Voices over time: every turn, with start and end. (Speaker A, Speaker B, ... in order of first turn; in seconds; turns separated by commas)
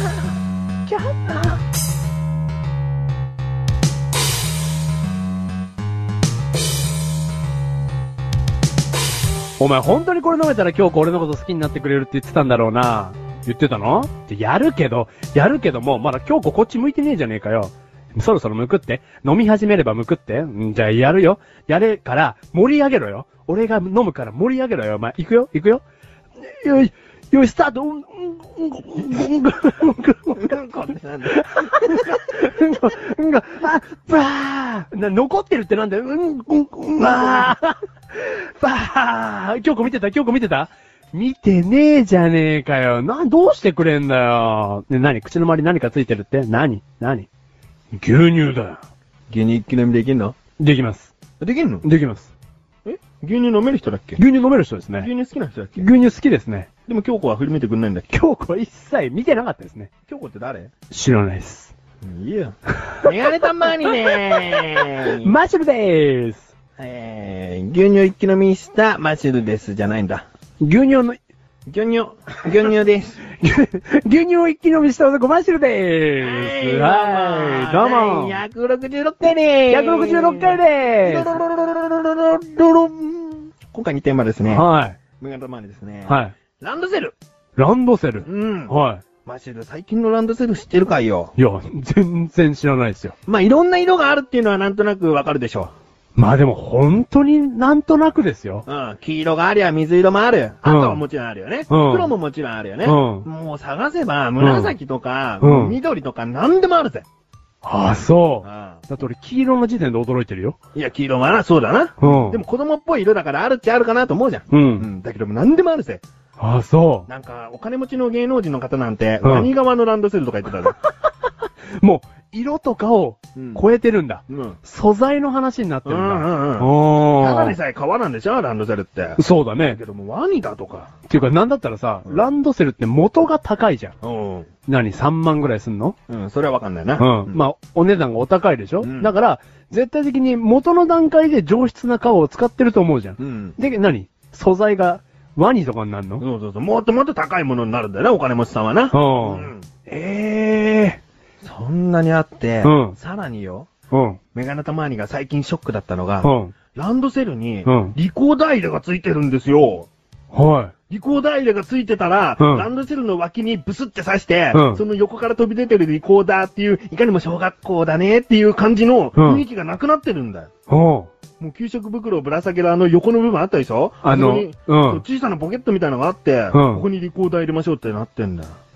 Speaker A: 0.9-1.6, Speaker A: 9.6-25.8, Speaker A: 26.4-30.5, Speaker B: 30.3-32.2, Speaker A: 31.2-47.3, Speaker B: 37.0-37.5, Speaker A: 47.9-48.8, Speaker B: 49.3-50.4, Speaker A: 50.6-51.1, Speaker B: 51.4-51.9, Speaker A: 51.8-52.3, Speaker B: 52.8-54.2, Speaker A: 54.2-55.1, Speaker B: 55.0-55.9, Speaker A: 55.8-56.7, Speaker B: 56.9-58.1, Speaker A: 58.1-59.9, Speaker B: 60.1-60.7, Speaker A: 60.9-61.7, Speaker B: 62.0-65.3, Speaker A: 64.5-66.5, Speaker B: 66.8-70.2, Speaker A: 70.6-71.2, Speaker B: 71.7-73.2, Speaker A: 73.3-78.4, Speaker B: 76.2-84.7, Speaker A: 79.7-81.4, Speaker A: 84.5-85.0, Speaker B: 85.2-87.2, Speaker A: 86.1-86.3, Speaker A: 87.5-89.0, Speaker B: 88.2-88.7, Speaker B: 89.2-91.3, Speaker A: 91.3-93.1, Speaker B: 93.2-95.7, Speaker A: 96.2-98.7, Speaker B: 98.7-107.0, Speaker A: 100.6-101.0, Speaker A: 101.7-102.1, Speaker A: 102.8-103.2, Speaker A: 104.4-104.7, Speaker A: 105.4-105.8, Speaker A: 107.6-110.6, Speaker B: 108.4-108.8, Speaker B: 110.7-116.0, Speaker A: 112.0-112.4, Speaker A: 114.5-114.9, Speaker A: 116.4-117.1, Speaker B: 117.1-120.7, Speaker A: 119.2-119.5, Speaker A: 121.8-127.6, Speaker B: 123.3-123.6, Speaker B: 124.3-124.6, Speaker B: 125.8-130.9, Speaker A: 129.2-129.8, Speaker A: 131.1-133.9, Speaker B: 134.0-134.5, Speaker A: 134.7-135.9, Speaker B: 136.1-137.4, Speaker A: 137.0-146.2, Speaker B: 138.8-139.1, Speaker B: 143.2-143.6, Speaker B: 146.2-149.7, Speaker A: 148.9-151.0, Speaker B: 151.4-153.7, Speaker A: 152.6-152.9, Speaker A: 153.9-154.2, Speaker B: 154.3-159.9, Speaker A: 156.2-156.5, Speaker A: 157.6-157.9, Speaker A: 160.3-160.7, Speaker B: 160.9-170.5, Speaker A: 162.4-162.7, Speaker A: 164.5-164.8, Speaker A: 169.2-169.4, Speaker A: 170.7-171.1, Speaker B: 171.4-178.6, Speaker A: 174.0-175.0, Speaker A: 176.5-176.8